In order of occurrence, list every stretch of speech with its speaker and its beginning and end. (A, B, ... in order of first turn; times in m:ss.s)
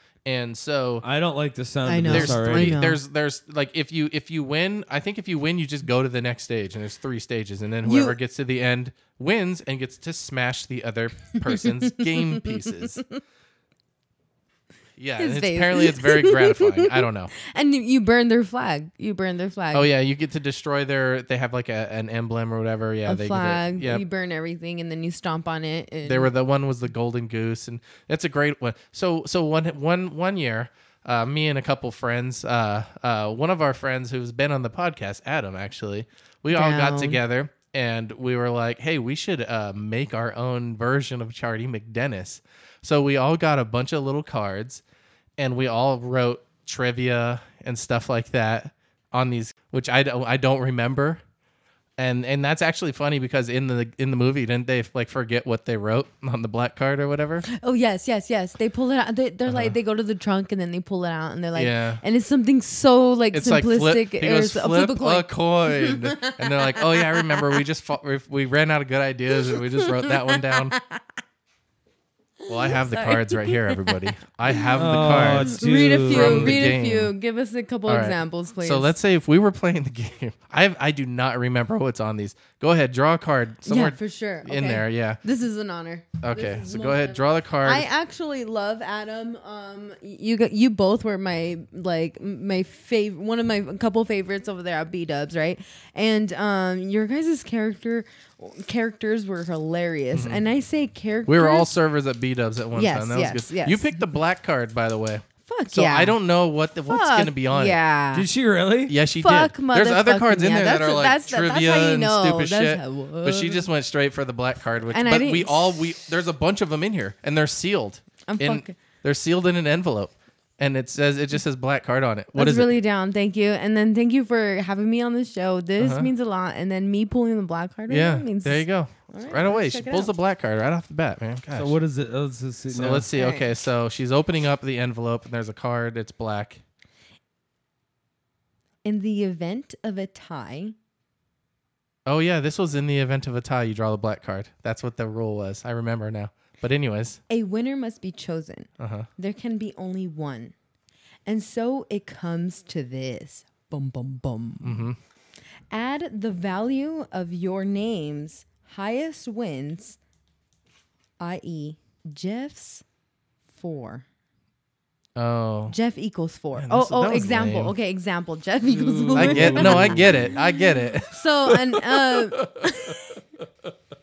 0:00.2-0:01.0 A
0:01.0-0:02.8 B
0:01.9-0:03.0 C
0:02.1-0:13.0 A
0:07.8-0:08.2 C
0:11.4-0:13.1 C
0:15.0-0:17.3 A
0:15.2-0:19.9 C
0:19.7-0:24.0 A
0:23.1-0:26.3 C
0:26.0-0:44.8 A
0:36.5-0:37.2 C
0:45.4-0:51.2 A
0:52.0-0:57.5 A
0:57.5-1:07.4 C
0:59.5-0:59.8 A
1:01.6-1:02.0 A
1:03.3-1:10.8 A
1:09.4-1:11.0 C
1:12.5-1:18.9 C
1:12.5-1:17.1 A
1:14.8-1:16.7 B
1:17.9-1:25.2 A
1:23.7-1:41.7 C
1:26.2-1:27.9 A
1:40.1-1:40.4 A
1:41.3-1:47.8 A
1:42.8-1:44.0 C
1:45.5-1:46.2 C
1:46.9-1:48.3 C
1:48.1-1:49.0 B
1:48.9-2:02.8 A
1:49.2-1:53.6 C
1:54.9-1:55.8 C
1:58.3-1:58.8 C
2:02.4-2:10.1 C
2:05.8-2:06.1 A
2:07.9-2:11.8 A
2:11.5-2:13.1 B
2:12.7-2:16.6 A
2:13.1-2:13.5 C
2:18.8-2:20.8 C
2:22.1-2:27.2 A
2:27.3-2:28.7 C
2:28.8-2:29.1 A
2:29.2-2:30.5 C
2:31.3-2:34.9 C
2:34.6-2:35.0 A
2:35.7-2:40.0 C
2:41.2-2:42.8 C
2:43.6-2:44.0 C
2:45.2-2:45.8 A
2:45.7-2:50.2 C
2:46.6-2:47.7 A
2:48.7-2:50.3 B
2:49.1-2:52.9 A
2:51.1-2:53.1 C